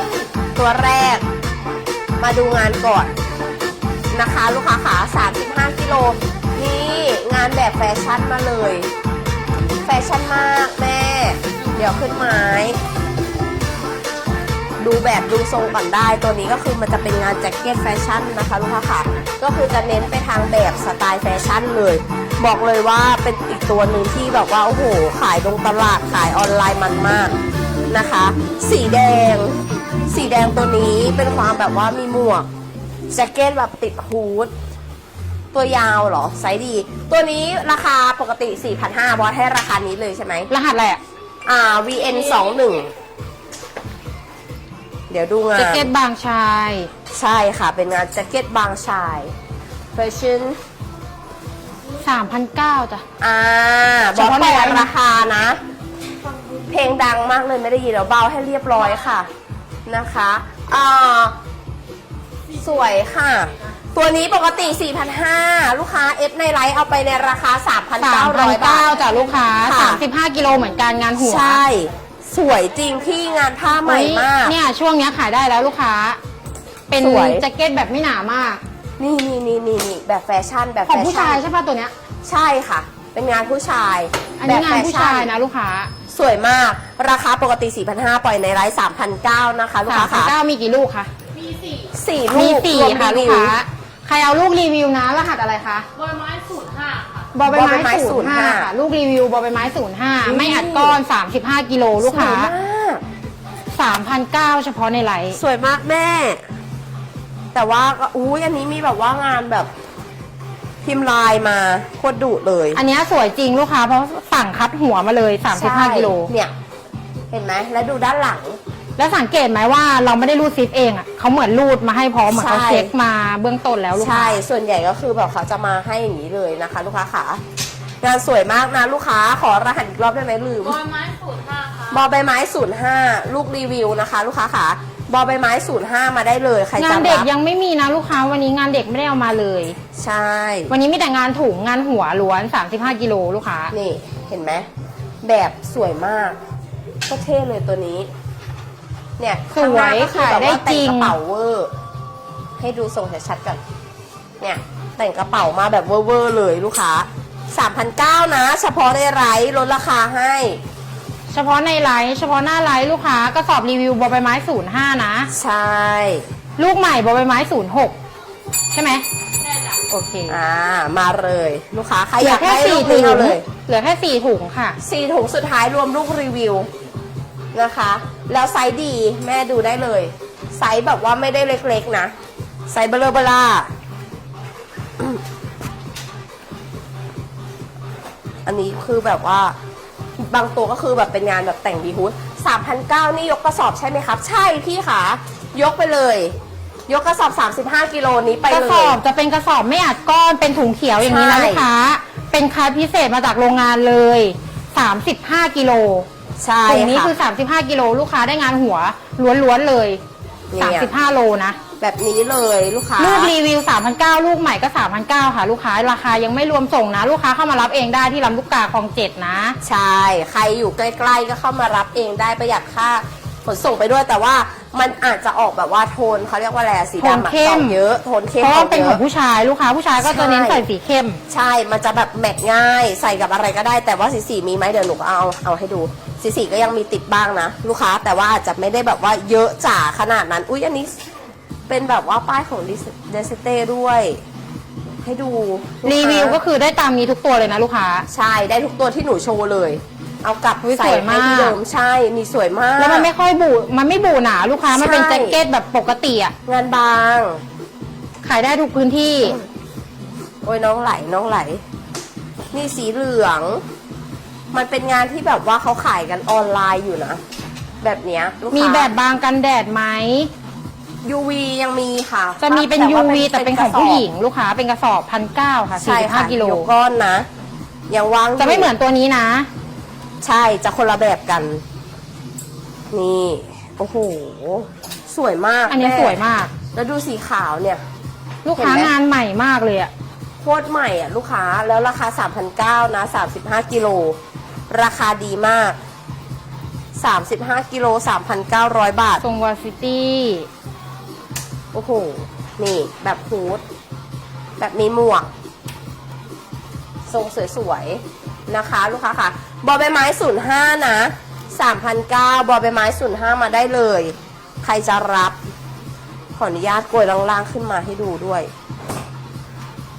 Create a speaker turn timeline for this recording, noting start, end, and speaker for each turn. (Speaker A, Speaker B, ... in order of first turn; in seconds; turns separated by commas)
Speaker A: 0.6-1.2, Speaker A: 2.2-3.1, Speaker A: 4.1-8.9, Speaker A: 9.8-12.8, Speaker A: 14.8-27.4, Speaker A: 27.9-32.5, Speaker A: 33.1-34.5, Speaker A: 35.5-40.5, Speaker B: 40.5-41.0, Speaker A: 41.4-42.9, Speaker A: 45.1-45.9, Speaker B: 45.5-46.9, Speaker A: 47.1-49.3, Speaker A: 49.9-50.6, Speaker B: 52.0-53.0, Speaker A: 53.2-55.6, Speaker B: 54.1-54.9, Speaker A: 56.7-59.3, Speaker A: 59.9-61.4, Speaker A: 62.6-68.9, Speaker B: 68.0-71.6, Speaker A: 69.6-70.0, Speaker A: 71.2-74.5, Speaker B: 73.8-76.2, Speaker B: 76.9-78.6, Speaker A: 77.0-77.4, Speaker A: 79.0-81.4, Speaker B: 80.8-81.9, Speaker A: 82.2-85.3, Speaker B: 84.4-85.9, Speaker A: 86.1-90.3, Speaker B: 89.9-91.1, Speaker C: 91.5-91.8, Speaker A: 91.9-93.6, Speaker B: 92.3-95.9, Speaker C: 96.1-97.2, Speaker B: 97.3-102.5, Speaker A: 97.5-98.7, Speaker A: 100.2-101.0, Speaker A: 102.0-103.0, Speaker B: 103.7-105.4, Speaker A: 105.3-106.4, Speaker A: 107.5-109.7, Speaker A: 110.8-112.8, Speaker B: 112.7-116.3, Speaker A: 115.5-116.5, Speaker A: 117.3-118.6, Speaker B: 119.0-124.4, Speaker A: 122.3-122.9, Speaker A: 124.0-127.4, Speaker A: 128.0-130.8, Speaker C: 130.8-131.8, Speaker A: 131.9-137.3, Speaker B: 136.8-139.8, Speaker A: 139.9-140.7, Speaker B: 140.7-143.7, Speaker A: 143.7-144.7, Speaker A: 145.2-146.4, Speaker A: 147.1-148.1, Speaker A: 149.2-151.7, Speaker B: 149.5-151.2, Speaker A: 152.6-153.6, Speaker A: 154.4-160.6, Speaker B: 161.3-165.3, Speaker A: 165.3-166.2, Speaker B: 166.6-167.9, Speaker B: 168.7-169.0, Speaker B: 169.9-170.4, Speaker A: 170.3-173.4, Speaker B: 172.2-174.8, Speaker A: 174.8-176.7, Speaker A: 177.5-182.1, Speaker A: 182.7-183.7, Speaker A: 188.4-189.6, Speaker A: 190.2-196.3, Speaker A: 196.9-199.0, Speaker B: 198.5-206.1, Speaker A: 201.0-201.7, Speaker A: 206.4-207.1, Speaker B: 206.7-210.0, Speaker A: 210.5-210.9, Speaker B: 210.6-211.6, Speaker A: 211.8-213.3, Speaker B: 213.0-219.6, Speaker A: 219.6-229.0, Speaker B: 227.0-227.8, Speaker B: 228.4-231.2, Speaker A: 229.9-230.6, Speaker A: 231.3-240.9, Speaker A: 241.7-244.2, Speaker A: 245.0-246.4, Speaker B: 245.8-248.1, Speaker A: 248.1-253.1, Speaker B: 250.6-251.6, Speaker B: 252.8-256.3, Speaker A: 254.7-255.4, Speaker A: 256.4-257.4, Speaker B: 258.2-259.4, Speaker A: 260.4-261.6, Speaker A: 262.5-263.6, Speaker A: 264.5-267.2, Speaker A: 267.8-268.9, Speaker B: 268.5-270.3, Speaker A: 271.0-274.0, Speaker B: 272.4-276.7, Speaker A: 275.8-277.3, Speaker A: 277.9-278.7, Speaker B: 278.4-279.5, Speaker A: 280.2-281.6, Speaker A: 282.9-286.2, Speaker B: 285.7-286.5, Speaker A: 286.7-287.8, Speaker B: 288.4-289.9, Speaker A: 288.5-288.9, Speaker A: 290.4-294.2, Speaker A: 294.7-295.8, Speaker A: 296.9-299.2, Speaker B: 299.2-300.5, Speaker A: 301.7-303.6, Speaker A: 304.6-305.3, Speaker A: 307.1-315.4, Speaker A: 316.4-318.5